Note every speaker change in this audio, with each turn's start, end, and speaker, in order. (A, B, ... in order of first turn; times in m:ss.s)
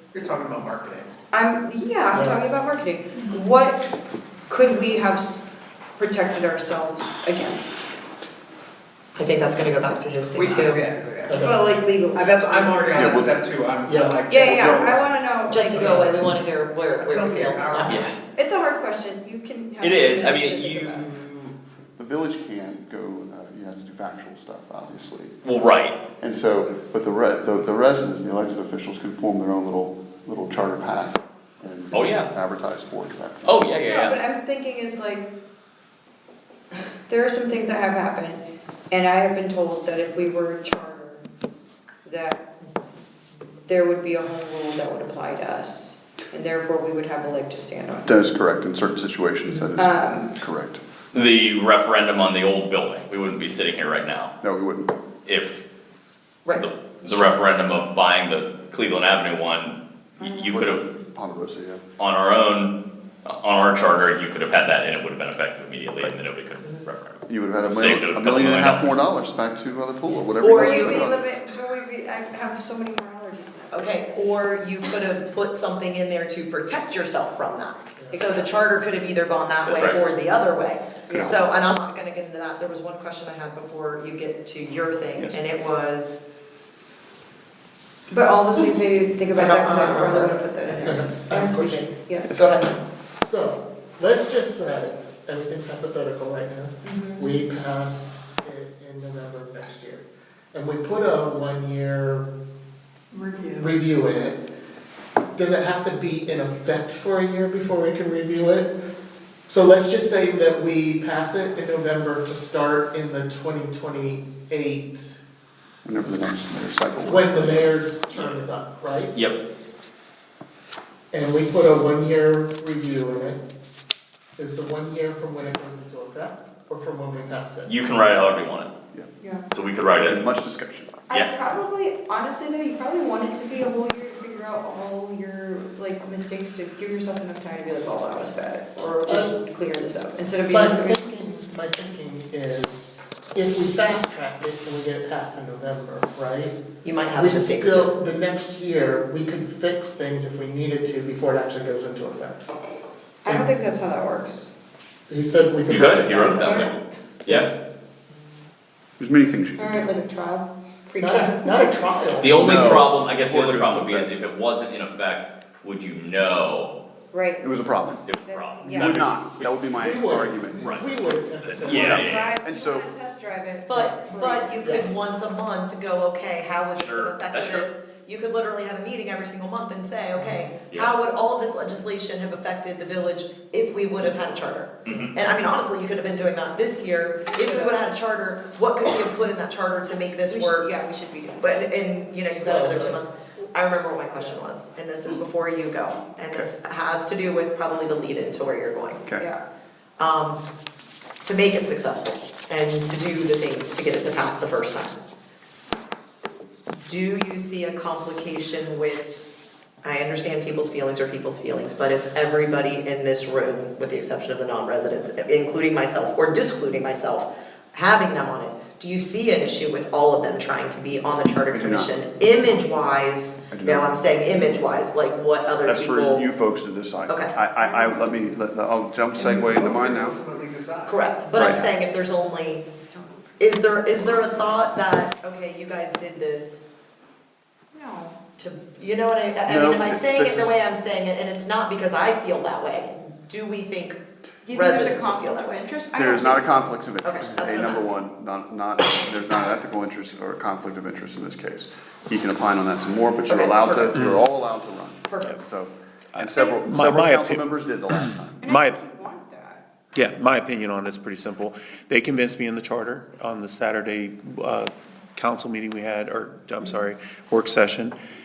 0:00.1-0:01.1 A
0:01.3-0:03.9 B
0:02.1-0:02.6 C
0:04.5-0:05.5 B
0:06.0-0:07.8 B
0:09.2-0:10.8 D
0:10.3-0:11.4 A
0:11.3-0:11.6 C
0:11.3-0:13.1 B
0:12.1-0:15.0 A
0:12.9-0:13.4 E
0:13.9-0:14.2 C
0:14.2-0:16.2 B
0:14.4-0:14.9 E
0:15.5-0:18.2 D
0:15.8-0:16.2 C
0:17.0-0:18.1 A
0:17.9-0:18.1 F
0:18.3-0:21.1 B
0:19.8-0:21.5 F
0:22.0-0:25.3 E
0:25.4-0:26.0 F
0:26.2-0:33.8 E
0:31.9-0:32.3 F
0:33.4-0:34.2 F
0:33.8-0:35.3 B
0:37.1-0:41.2 B
0:42.0-0:42.5 B
0:43.7-0:48.2 B
0:48.0-0:50.8 E
0:49.8-0:50.4 B
0:51.1-0:54.3 F
0:54.4-0:55.0 E
0:55.2-0:55.6 F
0:56.5-1:00.8 F
1:00.5-1:01.8 E
1:02.0-1:09.0 F
1:07.3-1:11.2 E
1:10.4-1:11.1 D
1:10.5-1:14.0 B
1:13.7-1:26.2 D
1:18.0-1:18.2 C
1:18.1-1:18.6 B
1:19.6-1:20.0 F
1:21.1-1:21.4 E
1:28.1-1:32.4 B
1:29.3-1:30.4 D
1:30.8-1:32.5 C
1:32.2-1:32.8 D
1:33.2-1:42.3 C
1:36.8-1:37.4 B
1:43.1-1:43.7 B
1:43.6-1:44.4 C
1:45.4-1:48.7 C
1:49.5-1:55.2 C
1:55.8-1:57.7 E
1:57.0-1:59.2 C
2:01.1-2:03.4 C
2:04.4-2:07.7 C
2:07.7-2:08.7 F
2:09.2-2:09.5 B
2:09.5-2:10.2 F
2:10.0-2:11.0 E
2:11.1-2:21.0 B
2:19.1-2:19.4 C
2:20.5-2:26.6 C
2:26.8-2:27.9 D
2:27.2-2:32.5 C
2:33.2-2:34.5 B
2:35.1-2:36.7 C
2:35.7-2:37.5 F
2:36.3-2:36.7 B
2:39.0-2:39.8 E
2:39.6-2:41.8 B
2:41.0-2:42.8 C
2:42.2-2:46.8 F
2:42.3-2:44.1 E
2:47.1-2:47.5 B
2:47.4-2:48.0 E
2:48.0-2:49.9 F
2:48.2-2:49.0 B
2:48.7-2:50.6 E
2:49.8-2:52.2 C
2:50.6-2:50.9 F
2:51.4-2:52.4 F
2:51.6-2:54.6 B
2:51.8-2:52.9 E
2:53.7-3:10.7 D
2:54.6-2:54.9 C
2:56.8-2:57.7 F
3:00.1-3:00.5 C
3:00.7-3:00.9 F
3:04.9-3:05.1 F
3:07.3-3:07.8 B
3:10.2-3:11.7 B
3:11.4-3:19.1 D
3:12.4-3:13.5 C
3:20.0-3:20.4 D
3:21.2-3:25.0 D
3:26.8-3:29.2 D
3:29.8-3:46.2 D
3:41.5-3:41.9 E
3:43.5-3:43.9 E
3:45.6-3:50.2 E
3:47.1-3:47.4 D
3:47.6-3:48.1 B
3:49.4-3:51.0 A
3:50.9-3:52.7 D
3:51.4-3:51.6 E
3:52.8-3:53.4 B
3:53.4-3:56.7 D
3:57.7-3:58.2 B
3:58.4-4:05.6 D
3:59.5-4:00.6 E
4:04.4-4:06.8 B
4:05.9-4:18.4 E
4:07.0-4:07.9 D
4:13.3-4:13.9 D
4:13.9-4:14.2 G
4:15.1-4:15.4 D
4:16.2-4:18.8 G
4:18.4-4:19.6 B
4:19.9-4:27.9 G